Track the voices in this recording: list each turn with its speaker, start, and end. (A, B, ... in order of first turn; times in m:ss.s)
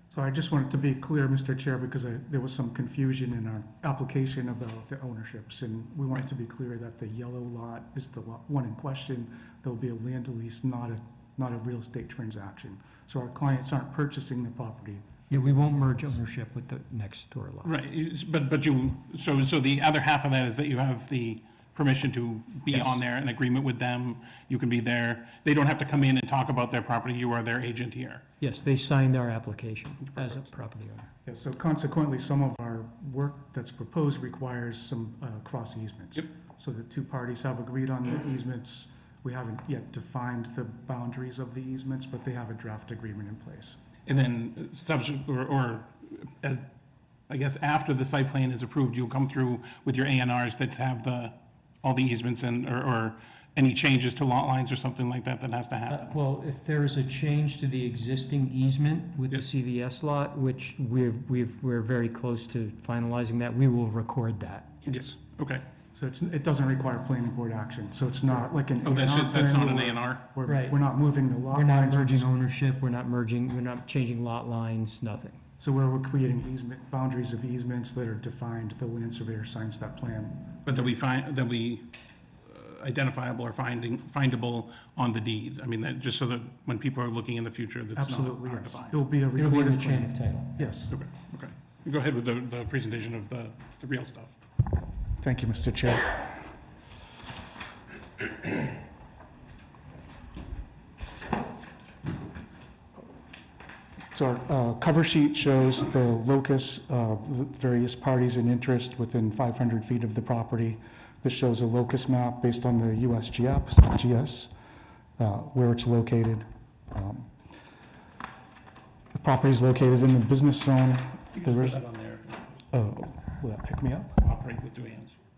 0:00.1-0:15.8 A
0:15.3-0:17.7 B
0:17.6-0:28.2 C
0:28.4-0:31.1 B
0:30.1-0:30.4 C
0:31.2-0:43.8 A
0:44.1-0:46.7 C
0:47.3-0:56.2 C
0:55.9-1:04.7 B
1:04.8-1:05.6 C
1:05.9-1:12.3 A
1:08.8-1:10.3 C
1:10.4-1:10.8 B
1:11.5-1:15.4 B
1:15.6-1:20.9 A
1:20.6-1:21.9 C
1:22.4-1:28.9 C
1:28.0-1:30.9 A
1:29.4-1:30.6 B
1:30.9-1:34.4 C
1:35.2-1:36.4 A
1:44.1-1:54.5 A
1:55.2-1:57.3 A
1:59.1-2:01.8 A
2:01.4-2:02.7 C
2:02.7-2:04.2 A
2:04.2-2:05.1 C